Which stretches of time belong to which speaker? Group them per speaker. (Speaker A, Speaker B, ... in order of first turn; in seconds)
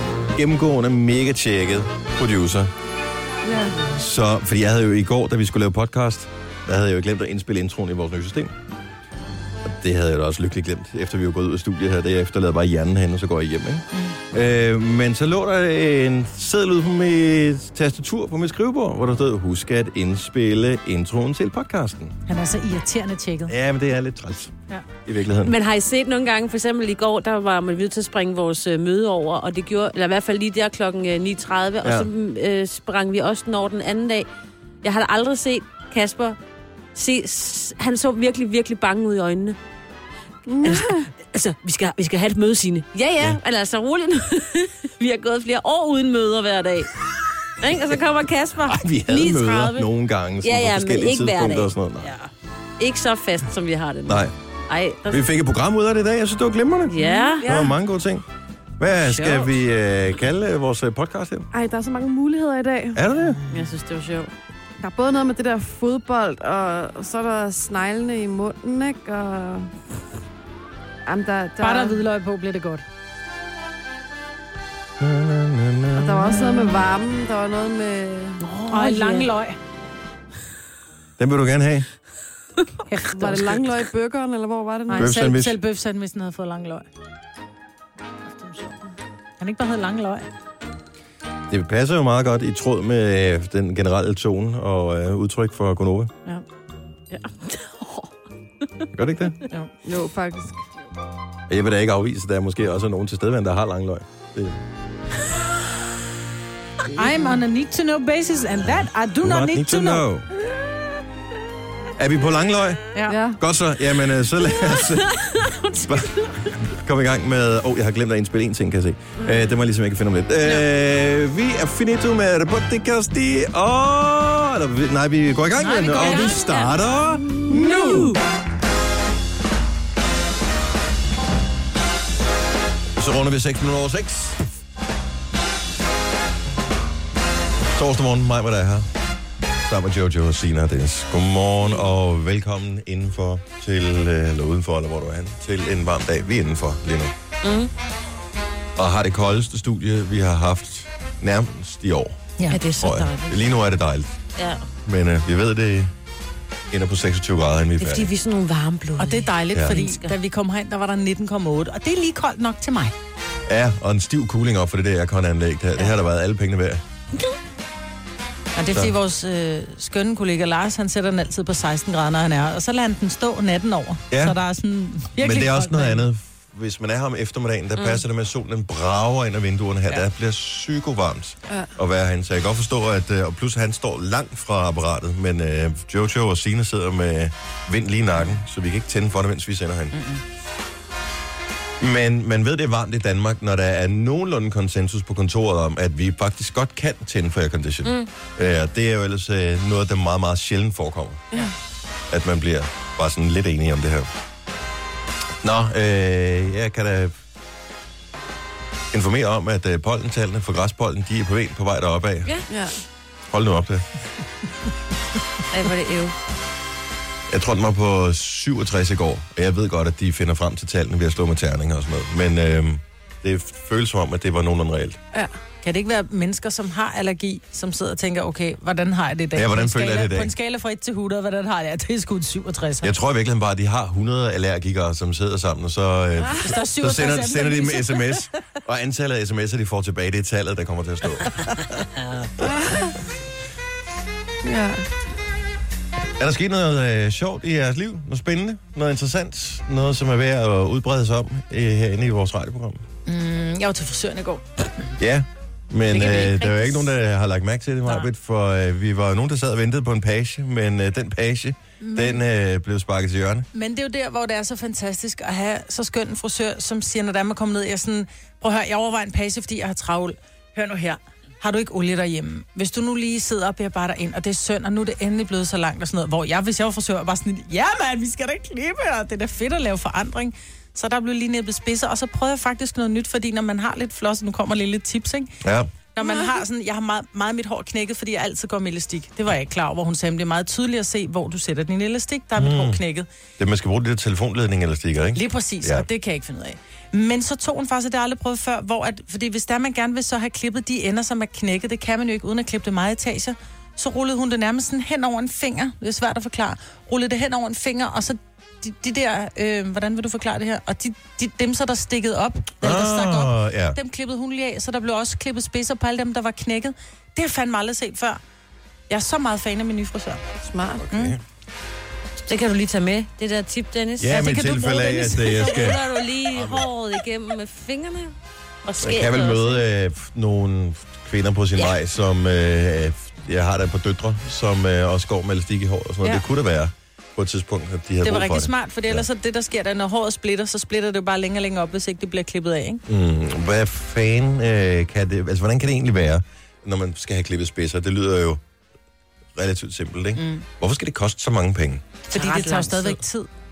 Speaker A: 0.3-2.7, 3.9-8.6, 9.6-22.2, 23.5-25.6, 31.8-32.1, 48.7-52.1, 54.1-54.3, 55.1-58.2, 58.8-61.5, 63.0-63.4, 75.0-76.3, 81.2-81.9, 85.0-85.6, 91.5-96.1, 98.9-99.4, 101.5-104.6, 109.2-110.3, 112.0-112.8, 113.4-115.2, 115.9-128.2, 133.0-134.4, 137.8-138.9, 139.7-147.1, 148.8-152.2, 152.8-154.1, 154.8-155.9, 156.7-158.1, 163.5-166.8, 174.1-174.4, 175.2-190.0, 191.8-201.2, 202.1-204.1, 205.4-207.2, 208.9-212.4, 213.3-213.9, 217.3-225.0, 229.3-230.3, 232.8-241.5, 246.2-252.8, 255.0-263.5, 285.4-285.7, 292.4-292.8, 293.4-295.9, 312.6-313.8, 320.8-321.2, 324.0-326.7, 328.8-339.1, 342.9-348.4, 349.4-351.8
Speaker B: 3.4-3.8, 40.5-41.1, 57.4-57.7, 61.5-63.0, 64.8-69.7, 71.1-72.0, 75.9-78.4, 83.1-85.2, 99.8-100.7, 113.1-113.4, 212.5-212.8, 242.4-242.9, 244.4-244.9, 286.0-286.3, 320.4-320.8
Speaker C: 13.9-14.2, 22.3-23.6, 57.0-57.3, 71.6-72.8, 78.7-79.6, 82.9-83.7, 84.9-86.9, 88.3-88.8, 89.4-90.3, 106.9-110.1, 125.9-126.4, 159.0-162.9, 168.6-176.0, 189.9-190.2, 225.6-232.9, 236.3-238.3, 253.1-254.9, 261.8-262.2, 263.5-285.4, 286.0-293.1, 295.1-318.2, 318.9-320.2, 320.9-321.2, 324.1-325.6, 338.0-342.8, 350.2-350.4, 352.1-353.3
Speaker D: 25.4-34.3, 34.8-36.4, 37.0-39.6, 40.6-46.9, 47.6-49.9, 50.4-55.2, 56.9-57.5, 59.0-59.6, 63.5-64.3, 78.4-79.3, 97.1-98.1, 115.1-116.3, 125.6-128.2, 147.4-147.7, 152.5-153.4, 154.4-154.6, 157.8-160.2, 197.8-198.1, 215.5-216.2, 255.9-256.9, 322.3-324.2, 325.4-328.1, 328.7-329.6, 352.1-353.0